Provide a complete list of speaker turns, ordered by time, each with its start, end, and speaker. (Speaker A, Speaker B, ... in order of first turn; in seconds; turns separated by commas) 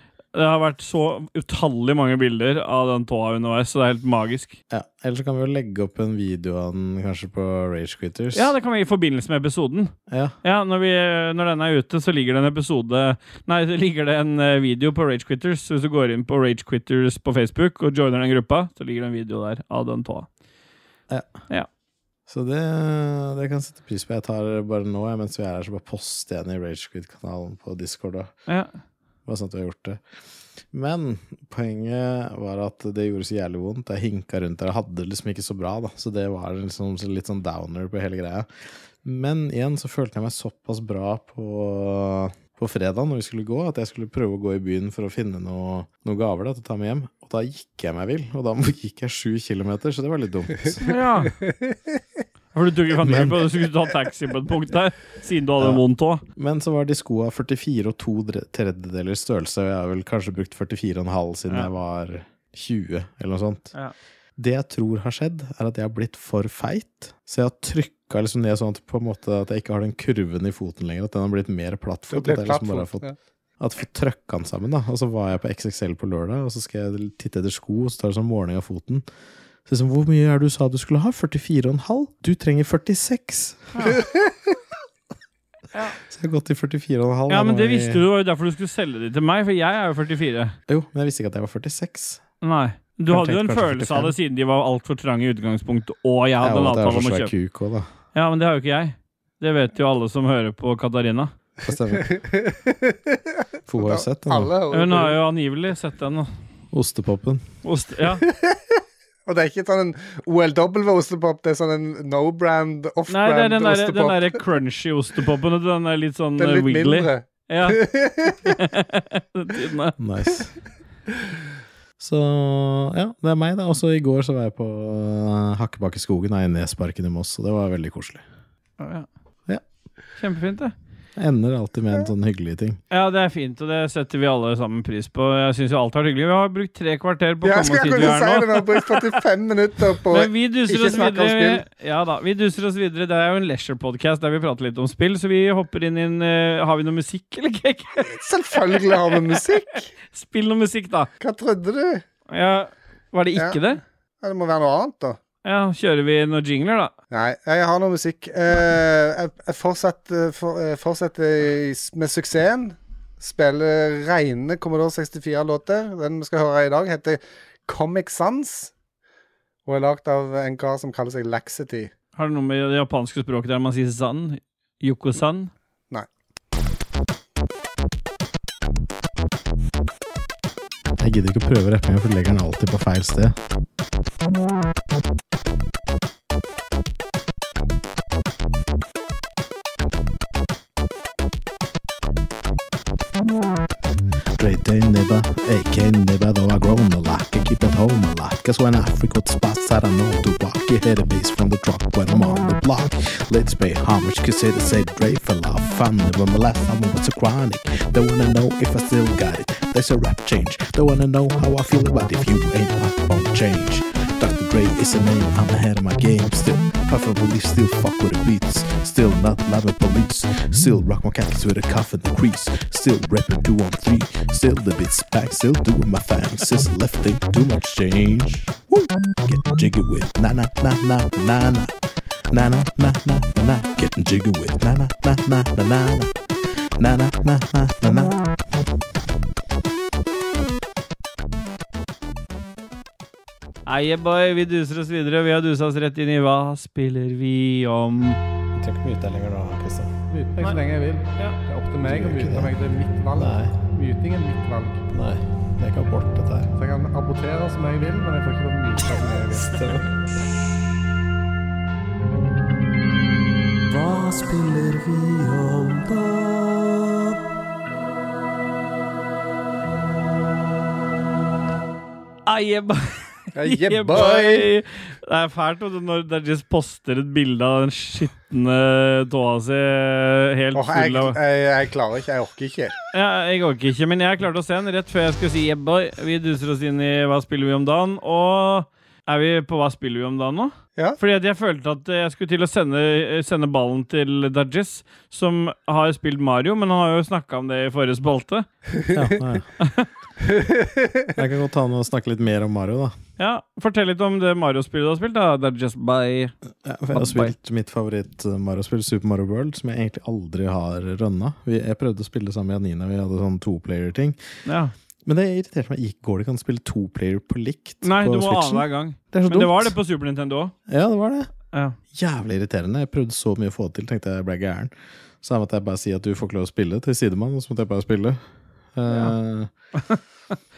Speaker A: 0.3-4.6, Speaker B: 4.7-8.5, Speaker A: 8.3-20.3, Speaker B: 10.1-10.4, Speaker B: 21.1-21.4, Speaker B: 22.3-28.3, Speaker B: 29.3-30.0, Speaker B: 30.7-50.9, Speaker A: 50.8-51.4, Speaker C: 51.5-51.8, Speaker A: 52.5-56.2, Speaker B: 53.0-53.5, Speaker B: 56.4-63.7, Speaker B: 64.4-73.0, Speaker C: 72.1-73.1, Speaker B: 73.6-79.1, Speaker B: 79.7-84.0, Speaker A: 83.8-84.0, Speaker B: 86.1-88.0, Speaker A: 87.3-90.5, Speaker B: 90.7-92.2, Speaker A: 92.4-97.3, Speaker B: 93.1-94.1, Speaker B: 96.4-97.9, Speaker A: 98.1-101.3, Speaker B: 101.6-102.1, Speaker C: 101.9-103.2, Speaker B: 103.7-104.5, Speaker C: 103.8-105.2, Speaker A: 104.7-106.3, Speaker B: 106.7-107.5, Speaker A: 107.6-108.2, Speaker C: 108.3-114.4, Speaker A: 113.1-117.8, Speaker C: 116.4-118.6, Speaker A: 118.5-120.0, Speaker B: 120.0-120.5, Speaker B: 122.0-128.2, Speaker A: 128.8-129.1, Speaker A: 130.2-130.7, Speaker B: 131.2-132.8, Speaker A: 132.9-139.1, Speaker C: 137.4-141.6, Speaker A: 140.1-148.1, Speaker C: 148.0-149.9, Speaker A: 148.9-149.4, Speaker A: 150.1-151.1, Speaker C: 151.2-152.0, Speaker A: 152.3-153.8, Speaker C: 154.2-155.2, Speaker A: 155.4-156.9, Speaker C: 157.1-168.7, Speaker C: 169.7-171.9, Speaker A: 172.2-175.5, Speaker B: 181.0-183.4, Speaker B: 194.4-231.7, Speaker B: 232.3-236.1, Speaker B: 236.8-238.2, Speaker A: 243.7-248.2, Speaker B: 248.6-249.9, Speaker C: 250.1-254.9, Speaker B: 251.8-252.5, Speaker B: 253.1-253.5, Speaker B: 254.9-256.5, Speaker C: 256.6-259.6, Speaker B: 259.5-259.9, Speaker B: 263.7-267.0, Speaker A: 272.3-281.2, Speaker C: 273.4-274.5, Speaker C: 280.5-282.7, Speaker A: 282.9-298.5, Speaker B: 298.9-299.5, Speaker A: 299.6-299.9, Speaker C: 300.2-301.1, Speaker B: 301.1-302.9, Speaker A: 303.2-306.3, Speaker B: 306.6-314.2, Speaker A: 306.9-307.3, Speaker A: 314.4-314.7, Speaker B: 315.1-319.8, Speaker A: 317.8-320.5, Speaker B: 320.7-321.3, Speaker B: 321.9-328.2, Speaker B: 328.8-329.5, Speaker A: 328.9-329.1